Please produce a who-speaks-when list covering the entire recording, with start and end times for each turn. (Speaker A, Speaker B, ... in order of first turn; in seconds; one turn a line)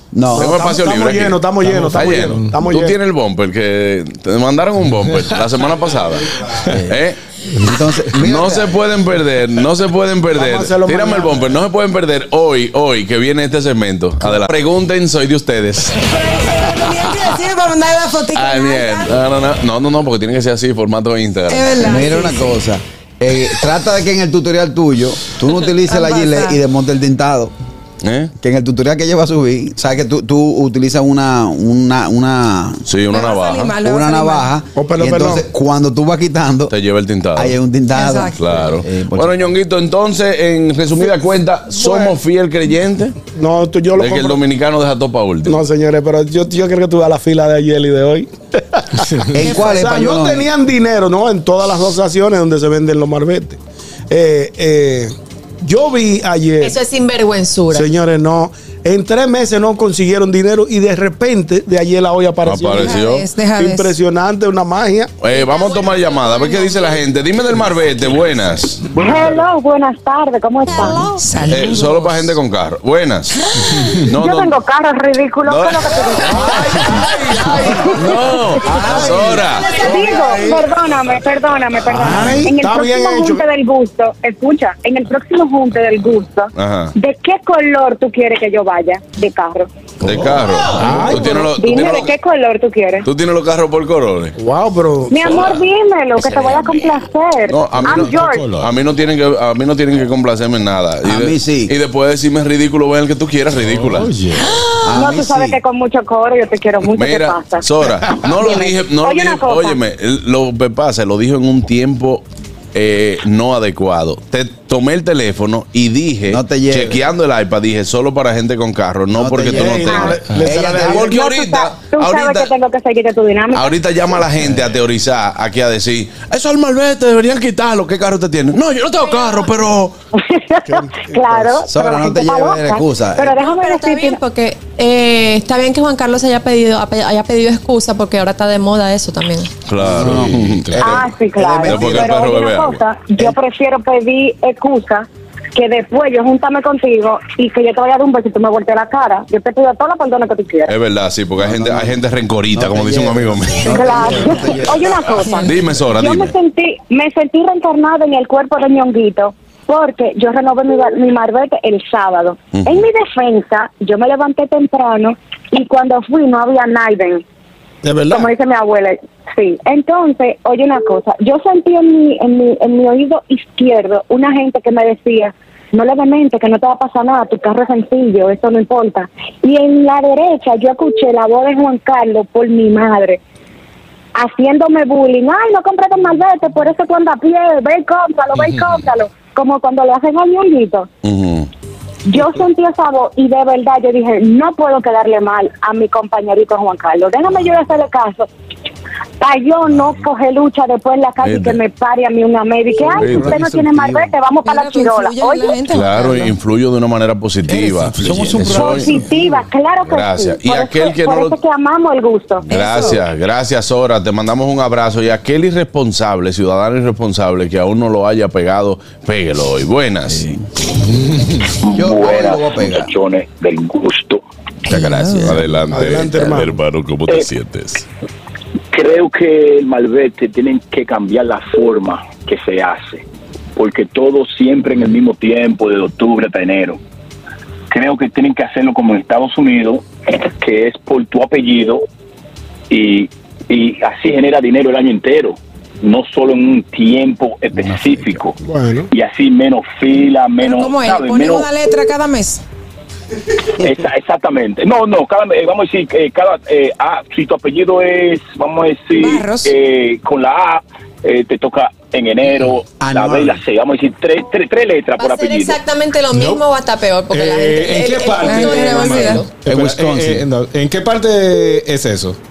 Speaker A: 0.1-0.6
Speaker B: 0.3-3.0
Speaker C: 0.3-7.2
Speaker D: 1.6-2.5
Speaker D: 5.1-6.0
Speaker A: 6.7-7.0
Speaker A: 7.5-8.8
Speaker C: 8.1-16.1
Speaker B: 10.3-11.5
Speaker A: 14.2-14.5
Speaker E: 16.0-19.1
Speaker C: 18.3-21.9
Speaker E: 21.5-22.6
Speaker A: 21.8-27.5
Speaker E: 25.8-26.6
Speaker C: 28.0-28.3
Speaker A: 28.4-32.8
Speaker C: 32.9-33.8
Speaker E: 33.1-34.5
Speaker A: 33.8-36.7
Speaker B: 34.7-35.5
Speaker C: 36.7-37.5
Speaker A: 37.3-39.5
Speaker E: 37.9-38.4
Speaker C: 38.4-43.1
Speaker B: 41.8-42.1
Speaker B: 43.4-44.4
Speaker C: 43.9-45.6
Speaker B: 45.5-49.1
Speaker A: 49.3-50.5
Speaker E: 49.5-49.7
Speaker B: 49.6-56.8
Speaker F: 56.6-57.9
Speaker B: 57.7-63.0
Speaker C: 62.4-63.2
Speaker E: 62.8-63.9
Speaker B: 63.5-65.1
Speaker C: 65.2-68.9
Speaker F: 65.3-67.0
Speaker G: 68.9-71.1
Speaker B: 69.0-69.4
Speaker E: 71.2-72.0
Speaker C: 71.5-74.6
Speaker G: 74.0-76.7
Speaker C: 75.4-77.0
Speaker B: 76.3-80.7
Speaker G: 77.6-78.0
Speaker C: 77.8-79.8
Speaker A: 78.7-79.4
Speaker G: 79.6-89.7
Speaker A: 81.9-82.5
Speaker B: 82.2-83.4
Speaker C: 86.5-86.9
Speaker C: 90.0-92.1
Speaker D: 90.1-90.4
Speaker B: 90.8-91.5
Speaker G: 91.2-93.1
Speaker C: 93.0-94.3
Speaker B: 94.4-95.3
Speaker G: 95.1-98.5
Speaker C: 95.2-95.6
Speaker C: 96.2-96.9
Speaker C: 97.5-104.1
Speaker D: 97.8-98.7
Speaker A: 101.0-101.7
Speaker D: 103.6-104.6
Speaker A: 104.8-105.6
Speaker G: 104.9-109.8
Speaker C: 106.8-120.2
Speaker A: 116.3-117.0
Speaker A: 119.1-121.2
Speaker B: 119.5-121.1
Speaker G: 119.8-120.2
Speaker C: 120.7-122.5
Speaker G: 121.0-124.2
Speaker C: 123.5-129.9
Speaker F: 129.0-129.5
Speaker G: 130.1-134.2
Speaker B: 130.7-131.6
Speaker A: 131.7-133.3
Speaker F: 133.2-139.5
Speaker C: 139.7-140.7
Speaker A: 139.8-140.4
Speaker D: 139.8-141.1
Speaker G: 140.8-150.7
Speaker A: 141.4-142.0
Speaker C: 141.6-142.8
Speaker C: 150.7-154.5
Speaker A: 151.4-152.0
Speaker A: 152.5-155.1
Speaker G: 153.6-167.2
Speaker C: 155.4-156.3
Speaker C: 162.5-162.8
Speaker B: 167.8-168.3
Speaker G: 168.1-183.2
Speaker G: 184.1-190.9
Speaker D: 188.3-188.9
Speaker C: 191.0-191.5
Speaker G: 192.1-198.3
Speaker G: 199.2-205.6
Speaker C: 201.2-201.6
Speaker A: 202.9-204.1
Speaker C: 203.0-203.5
Speaker E: 204.4-206.3
Speaker C: 205.7-209.0
Speaker A: 207.5-209.0
Speaker G: 208.4-212.5
Speaker C: 209.8-211.4
Speaker C: 212.4-220.2
Speaker E: 212.5-213.0
Speaker A: 220.1-220.4
Speaker H: 221.6-224.2
Speaker A: 221.8-222.9
Speaker E: 224.7-225.3
Speaker A: 224.7-225.3
Speaker C: 225.2-227.8
Speaker B: 225.7-226.6
Speaker H: 228.7-233.0
Speaker H: 233.6-236.8
Speaker H: 237.7-241.8
Speaker H: 242.7-248.3
Speaker A: 247.5-248.2
Speaker B: 248.4-248.9
Speaker H: 248.9-251.5
Speaker E: 250.4-252.4
Speaker H: 253.6-265.6
Speaker E: 259.0-259.5
Speaker A: 262.8-263.4
Speaker F: 265.0-269.4
Speaker D: 266.1-266.4
Speaker D: 267.1-272.2
Speaker E: 268.2-269.2
Speaker A: 269.4-270.2